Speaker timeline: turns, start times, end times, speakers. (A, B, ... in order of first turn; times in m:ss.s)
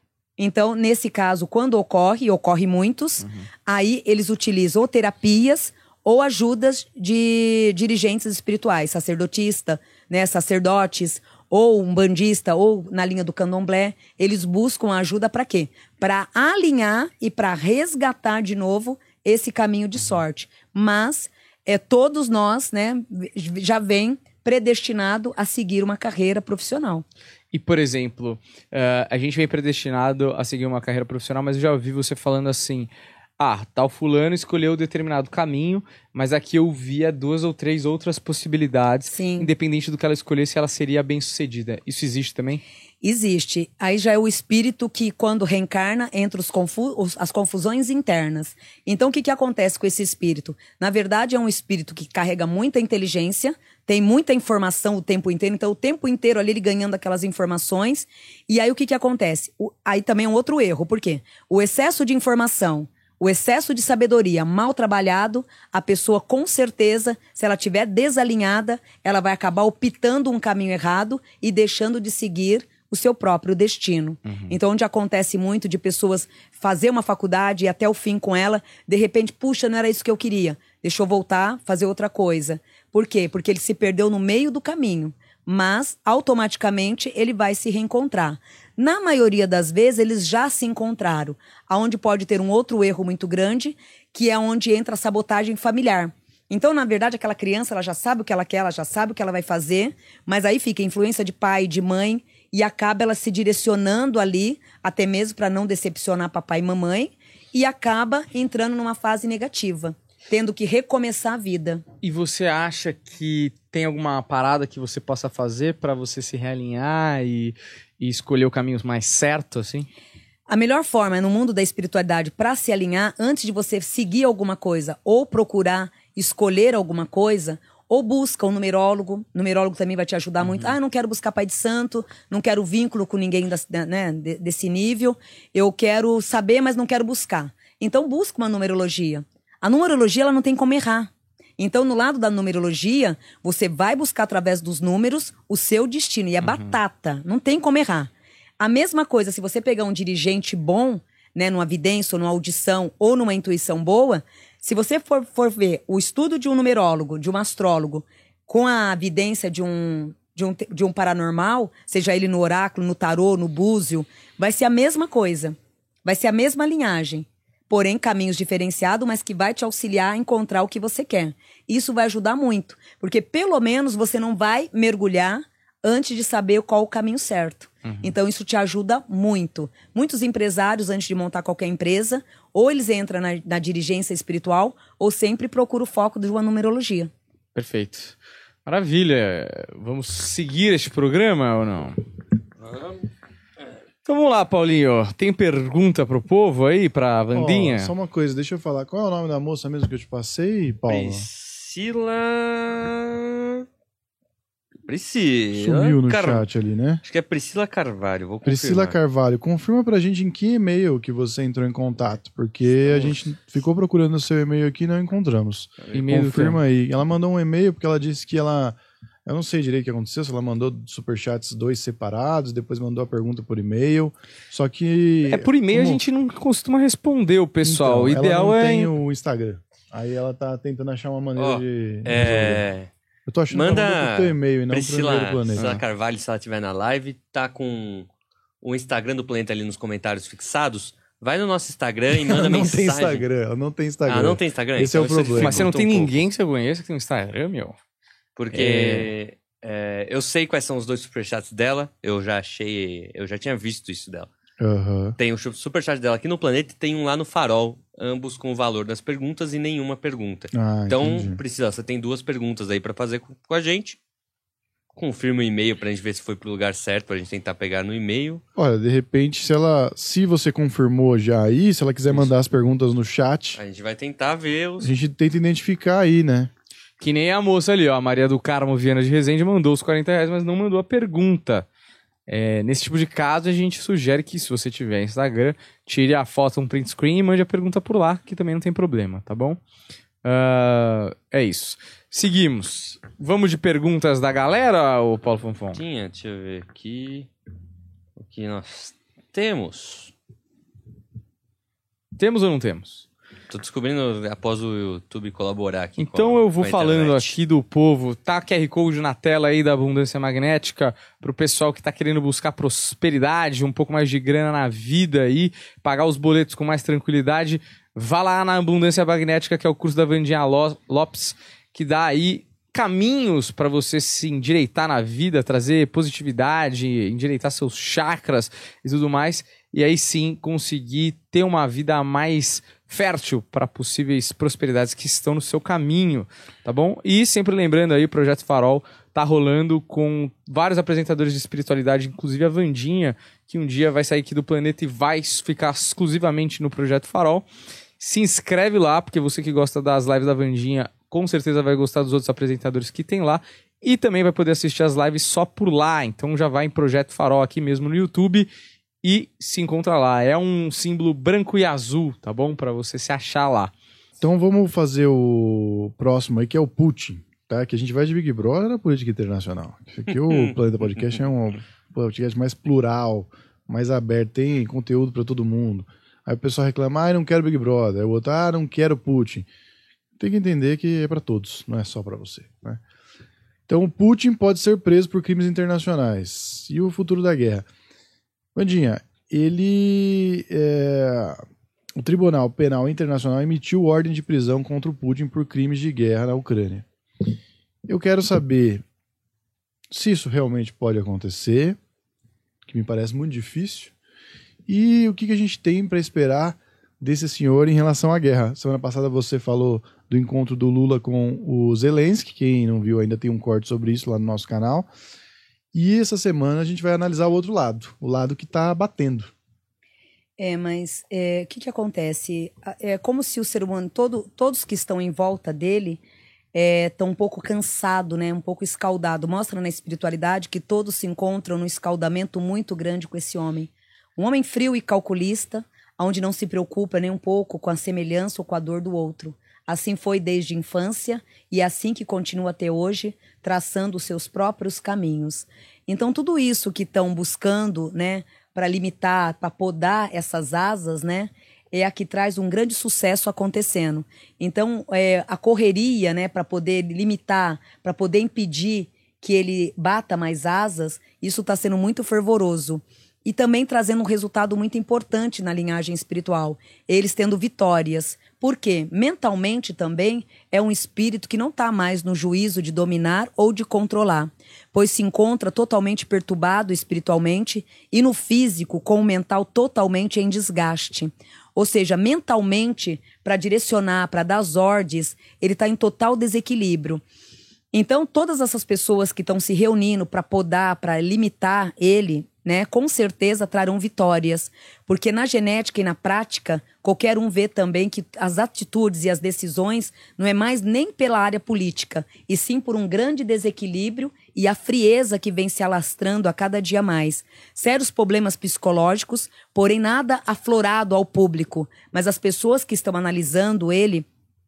0:00.4-0:27.0 A
0:03.2-0:03.5 B
0:27.5-0:42.6 B
0:39.1-0:39.5 A
0:43.0-1:51.8 A
1:14.2-1:14.6 B
1:52.0-1:59.9 B
2:00.5-3:07.1 A
2:26.4-2:26.8 B
2:57.8-2:58.1 B
3:07.5-3:12.0 B
3:12.6-3:13.0 C
3:14.0-3:17.9 B
3:17.3-3:21.2 D
3:20.9-3:23.6 C
3:24.8-3:26.4 C
3:25.5-3:27.0 D
3:27.0-3:29.0 C
3:28.4-3:46.0 D
3:32.8-3:33.2 C
3:35.9-3:36.6 B
3:45.3-3:48.9 B
3:47.6-3:52.6 D
3:51.4-3:52.9 C
3:53.2-3:55.8 D
3:53.5-3:58.1 C
3:58.6-4:03.2 C
4:02.2-4:05.8 D
4:04.0-4:06.2 C
4:05.4-4:07.8 B
4:08.4-4:14.3 C
4:08.5-4:09.1 B
4:14.6-4:15.2 D
4:15.2-4:24.0 C
4:20.5-4:21.4 D
4:24.9-4:28.4 C
4:28.6-4:33.6 D
4:33.6-4:34.9 C
4:34.8-4:36.5 D
4:37.0-4:41.7 B
4:42.3-4:49.6 B
4:50.2-4:55.8 B
4:55.7-4:57.3 C
4:58.2-5:00.1 C
5:02.2-5:03.0 B
5:03.5-5:07.3 C
5:06.0-5:47.4 B
5:48.0-5:58.5 B
5:59.0-6:03.7 B
6:04.2-6:19.5 D
6:20.2-6:22.8 D
6:23.7-6:27.7 D
6:28.5-6:31.4 D
6:32.0-6:36.8 D
6:37.8-6:38.8 D
6:39.9-6:41.8 D
6:42.7-6:43.9 D
6:44.7-6:54.9 D
6:55.7-6:59.3 D
7:00.4-7:06.0 A
7:06.5-8:07.0 A
8:07.7-8:34.0 A